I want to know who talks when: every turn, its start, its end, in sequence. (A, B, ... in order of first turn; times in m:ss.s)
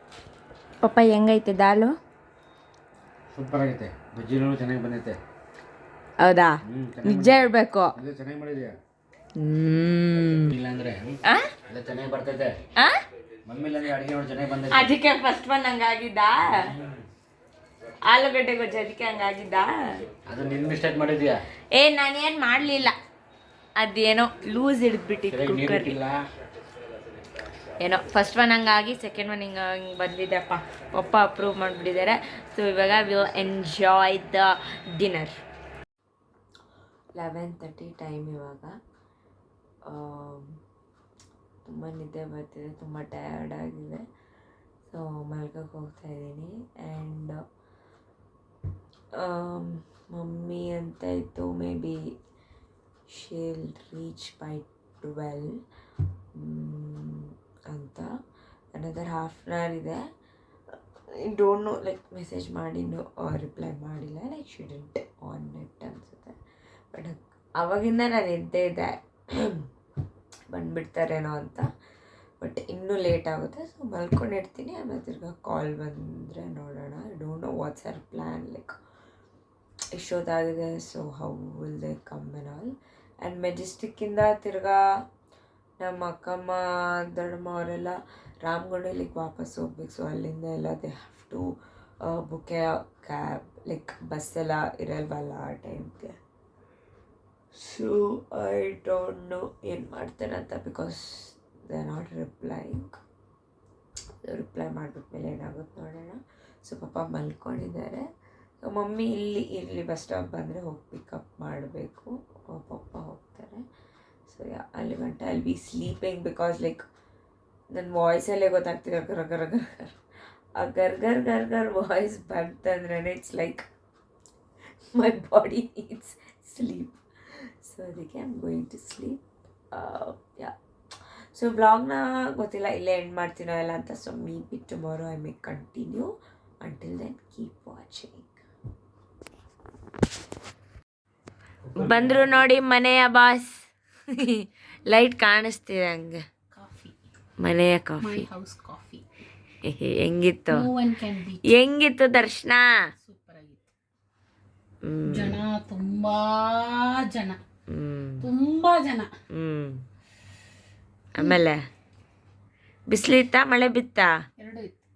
0:00.8-0:01.9 A
0:03.3-0:05.2 B
0:06.2-0:08.0 A
0:06.7-0:07.4 B
0:08.0-0:08.8 B
0:09.4-0:10.5 A
0:10.3-0:11.2 B
0:11.7-0:12.6 B
0:13.5-0:14.9 B
0:14.7-0:16.7 A
0:18.1-0:20.0 A
0:20.3-0:21.4 B
0:21.7-0:22.9 A
0:23.8-0:26.0 A
0:25.3-0:26.2 B
0:27.8-0:35.3 A
0:37.2-0:38.7 A
0:39.9-0:40.6 A
0:41.7-0:44.0 A
0:44.9-0:47.4 A
0:49.2-0:52.1 A
0:53.1-0:55.6 A
0:56.4-0:58.1 A
0:58.7-1:00.0 A
1:01.1-1:06.4 A
1:06.9-1:09.7 A
1:10.5-1:11.7 A
1:12.4-1:18.8 A
1:20.0-1:24.8 A
1:25.8-1:36.2 A
1:37.6-1:43.0 A
1:44.2-1:48.0 A
1:48.6-1:53.6 A
1:54.3-1:56.8 A
1:57.7-2:00.0 A
2:00.6-2:03.7 A
2:04.9-2:07.0 A
2:07.6-2:10.5 A
2:11.3-2:18.4 A
2:21.7-2:23.6 A
2:24.1-2:26.2 A
2:26.5-2:27.0 C
2:27.4-2:28.3 A
2:28.0-2:29.0 C
2:29.6-2:30.7 A
2:30.5-2:31.4 C
2:31.4-2:32.9 A
2:33.0-2:33.7 C
2:34.8-2:35.4 A
2:35.1-2:37.4 C
2:37.7-2:38.3 A
2:38.2-2:39.1 C
2:39.3-2:39.8 A
2:41.2-2:41.6 A
2:42.9-2:44.1 A
2:44.4-2:44.8 C